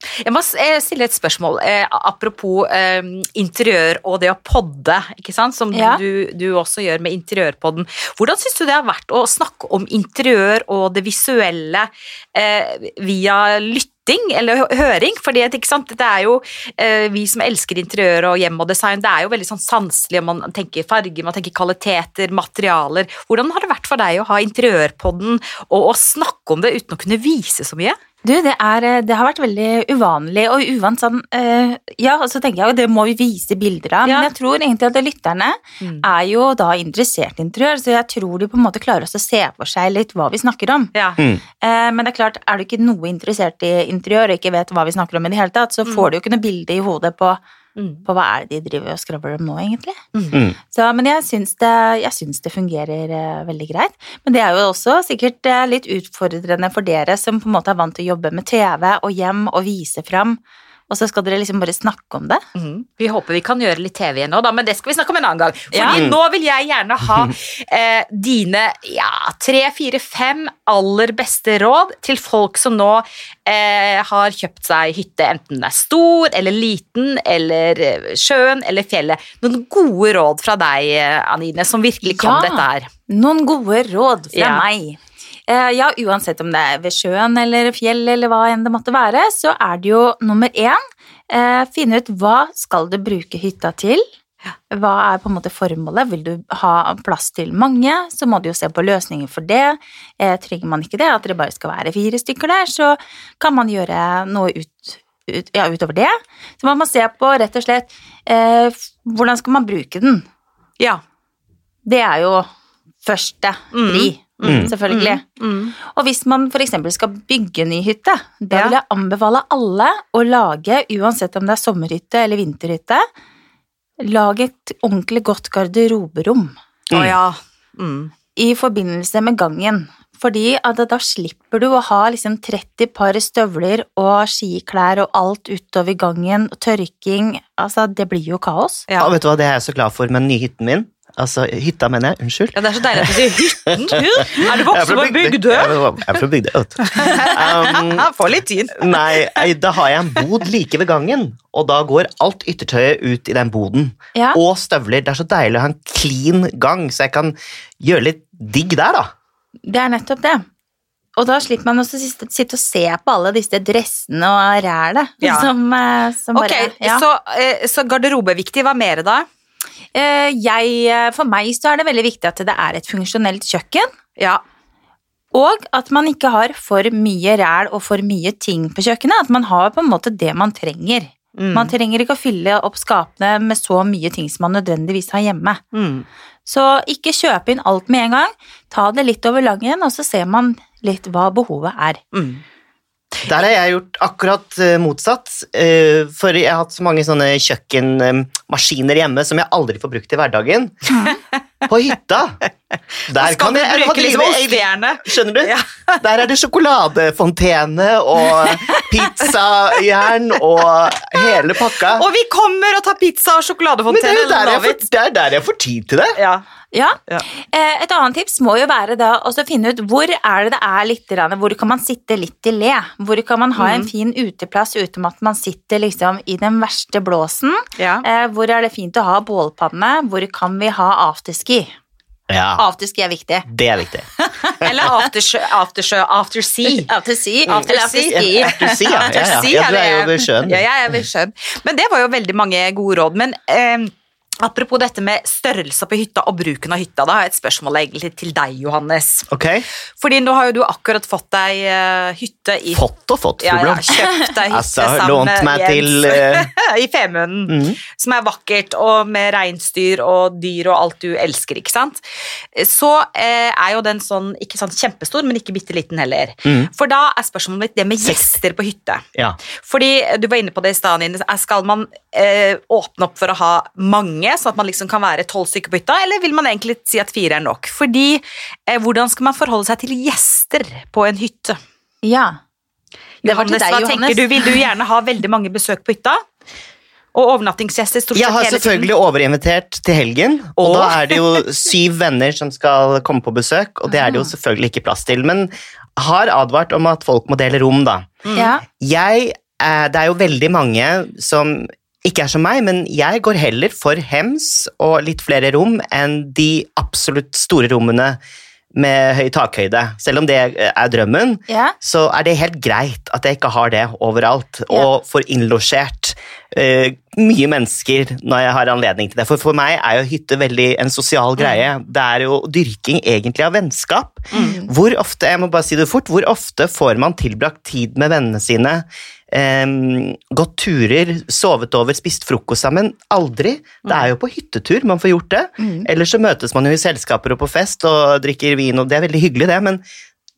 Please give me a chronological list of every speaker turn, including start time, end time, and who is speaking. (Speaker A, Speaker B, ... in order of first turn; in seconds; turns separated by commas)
Speaker A: 0.2-28.0, Speaker B: 5.7-6.0, Speaker B: 28.2-40.9, Speaker A: 34.0-34.3, Speaker A: 40.9-41.2, Speaker B: 41.6-47.4, Speaker A: 47.8-48.0, Speaker B: 48.0-50.0, Speaker B: 50.7-62.4, Speaker A: 62.5-82.9, Speaker B: 65.7-66.0, Speaker C: 65.9-66.2, Speaker B: 82.0-94.0, Speaker A: 84.3-84.6, Speaker B: 94.7-110.2, Speaker B: 111.8-112.5, Speaker B: 113.0-115.2, Speaker A: 113.7-115.7, Speaker C: 114.4-114.7, Speaker B: 115.8-123.1, Speaker B: 124.0-126.5, Speaker A: 126.9-128.1, Speaker B: 128.3-138.9, Speaker C: 139.0-148.1, Speaker A: 142.5-145.7, Speaker B: 144.0-144.3, Speaker A: 146.8-149.5, Speaker C: 148.7-159.1, Speaker B: 159.7-160.4, Speaker B: 161.2-167.0, Speaker A: 165.2-165.5, Speaker A: 166.3-169.2, Speaker B: 169.9-173.9, Speaker A: 174.2-174.4, Speaker B: 175.3-185.6, Speaker A: 181.4-181.7, Speaker A: 185.7-186.1, Speaker B: 186.4-192.0, Speaker A: 192.1-192.4, Speaker C: 193.2-200.9, Speaker B: 200.9-201.2, Speaker C: 201.7-202.4, Speaker C: 203.1-212.1, Speaker A: 203.1-206.0, Speaker A: 208.3-209.0, Speaker A: 211.2-214.8, Speaker C: 213.9-216.2, Speaker A: 216.2-216.4, Speaker B: 216.7-231.7, Speaker A: 223.6-223.9, Speaker A: 227.8-228.0, Speaker C: 232.3-232.6, Speaker B: 232.6-233.5, Speaker C: 233.5-234.1, Speaker B: 234.2-234.6, Speaker A: 234.6-236.9, Speaker C: 234.6-234.9, Speaker B: 236.6-239.2, Speaker A: 237.5-249.3, Speaker C: 237.6-240.6, Speaker C: 249.3-249.7, Speaker A: 250.0-252.8, Speaker C: 252.7-256.5, Speaker A: 253.4-262.0, Speaker C: 257.5-257.8, Speaker A: 262.5-269.0, Speaker C: 266.4-266.7, Speaker C: 268.0-268.4, Speaker A: 269.6-281.6, Speaker B: 282.0-282.4, Speaker A: 283.2-286.2, Speaker B: 283.2-284.6, Speaker A: 287.1-288.9, Speaker C: 288.1-298.2, Speaker A: 290.6-291.4, Speaker B: 293.9-294.3, Speaker B: 298.3-298.6, Speaker C: 298.7-308.2, Speaker C: 308.7-339.8, Speaker B: 311.5-311.7, Speaker B: 324.3-324.7, Speaker A: 333.8-334.1, Speaker B: 335.6-335.9